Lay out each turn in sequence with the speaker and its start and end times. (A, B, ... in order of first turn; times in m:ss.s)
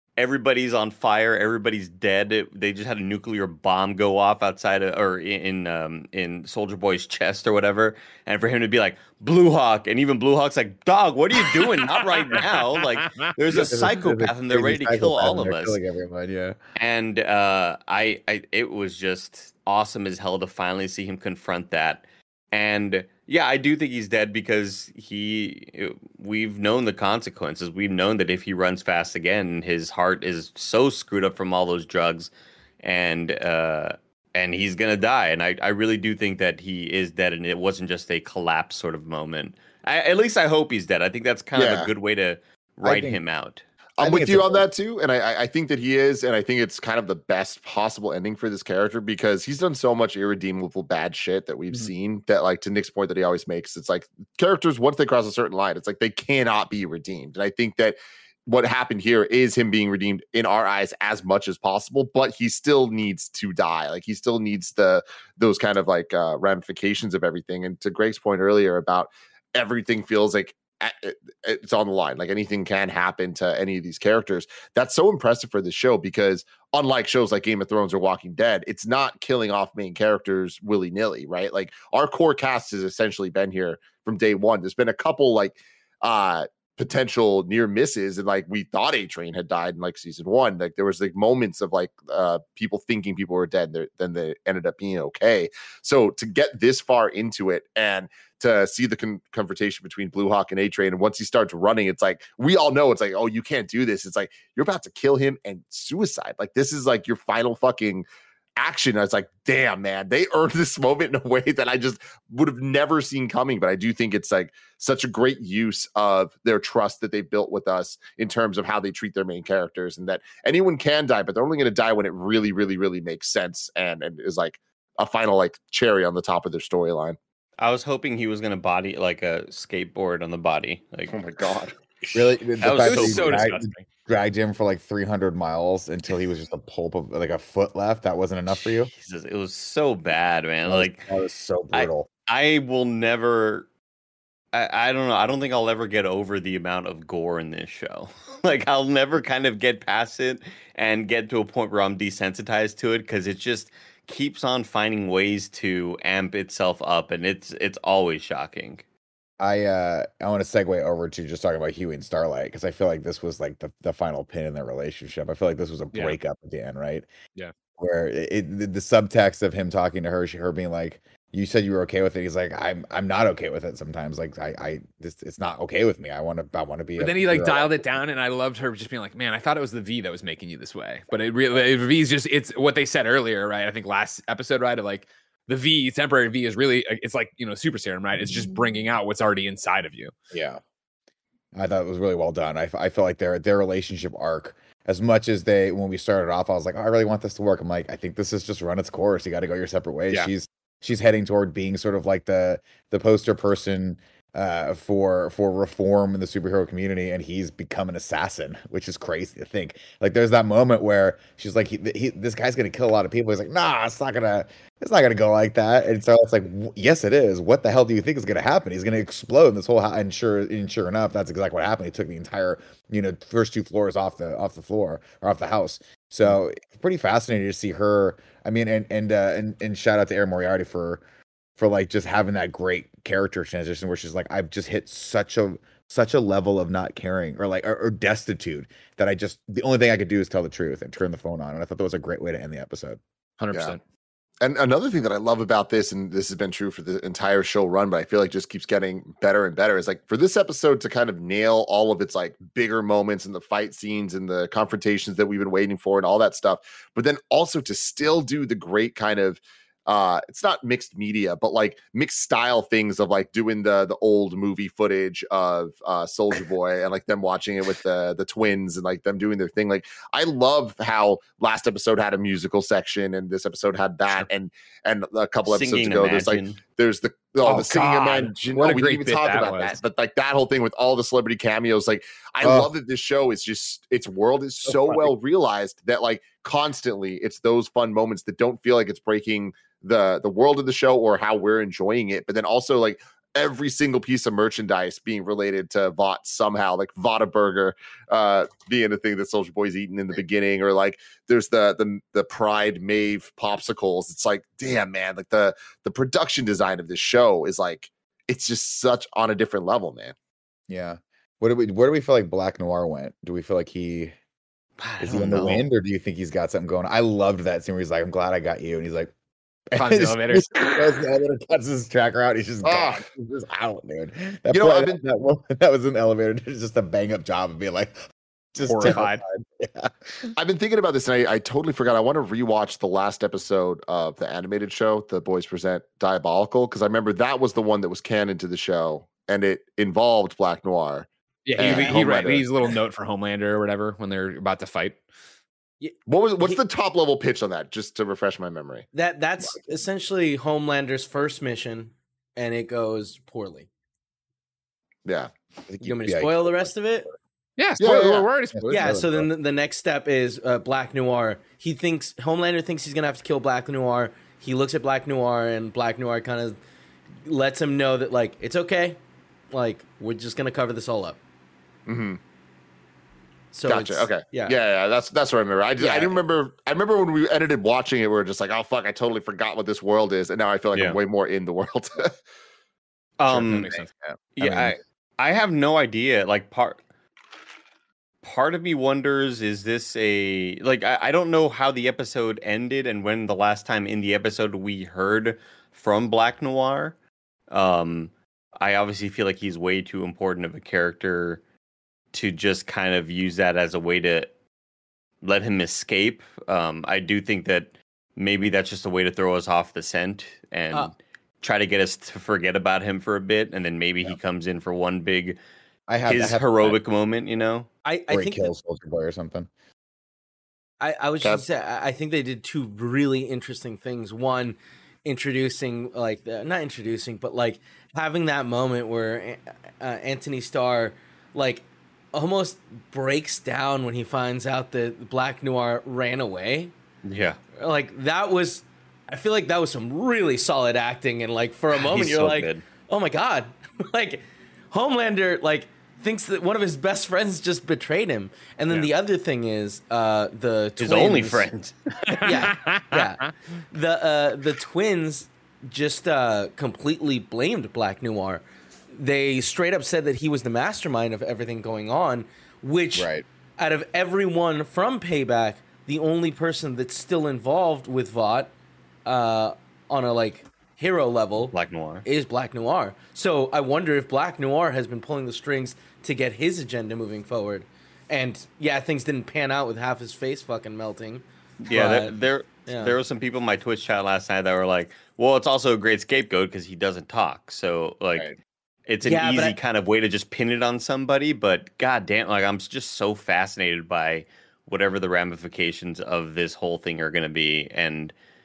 0:00.2-0:15.8 A
0:12.2-0:12.5 B
0:13.0-0:13.7 B
0:13.5-0:16.6 C
0:16.8-0:43.6 A
0:41.5-0:41.9 D
0:42.8-0:43.2 C
0:44.0-1:48.0 D
0:44.0-0:44.7 C
1:48.6-2:07.2 D
2:07.6-2:11.2 A
2:11.1-2:11.7 D
2:12.1-2:18.9 C
2:12.6-2:13.6 A
2:12.8-2:13.8 B
2:18.5-2:21.1 A
2:20.6-2:22.1 C
2:21.7-2:23.7 A
2:24.5-2:38.8 A
2:39.4-2:47.1 C
2:47.8-2:57.8 C
2:57.0-3:10.1 B
3:10.3-3:10.6 C
3:11.5-3:51.0 C
3:51.6-4:03.0 C
4:03.4-4:03.8 B
4:04.4-5:10.1 D
4:35.4-4:36.6 A
4:37.4-4:39.8 B
4:42.4-4:42.7 C
4:44.6-4:45.1 C
5:10.7-5:14.1 C
5:14.8-5:15.7 A
5:15.0-5:19.1 C
5:19.7-5:28.0 C
5:19.7-5:21.0 B
5:22.6-5:23.0 D
5:24.5-5:25.0 D
5:28.5-5:30.3 C
5:28.6-5:29.2 B
5:30.4-5:42.5 D
5:41.4-5:45.0 B
5:45.8-5:46.6 E
5:46.1-5:48.8 D
5:48.9-5:53.7 E
5:55.0-5:55.3 D
5:55.7-5:56.8 C
5:55.8-5:57.1 E
5:57.6-5:59.0 B
5:57.8-5:58.3 D
5:58.5-5:59.3 C
5:58.7-6:06.6 E
6:07.2-6:09.0 E
6:09.5-6:11.2 E
6:11.9-6:12.2 D
6:13.5-6:14.6 E
6:13.7-6:22.1 D
6:15.8-6:16.1 E
6:20.7-6:21.0 A
6:23.2-6:23.8 A
6:23.3-6:23.9 B
6:24.0-6:24.7 C
6:24.4-6:26.8 A
6:28.2-6:37.0 A
6:37.5-6:41.4 A
6:42.1-6:44.3 A
6:45.2-6:55.4 A
6:55.9-6:56.8 C
6:56.0-6:57.7 A
6:57.8-6:58.5 E
6:58.1-6:59.5 C
7:00.8-7:16.7 E
7:17.0-7:17.4 A
7:17.6-7:31.5 E
7:21.7-7:22.6 A
7:30.8-7:31.8 A
7:32.0-7:33.3 B
7:32.2-7:48.5 E
7:42.9-7:43.2 C
7:49.0-7:51.5 E
7:51.5-7:52.0 A
7:52.0-8:02.1 E
8:01.6-8:08.3 A
8:02.6-8:03.0 E
8:08.9-8:18.1 A
8:09.0-8:09.6 E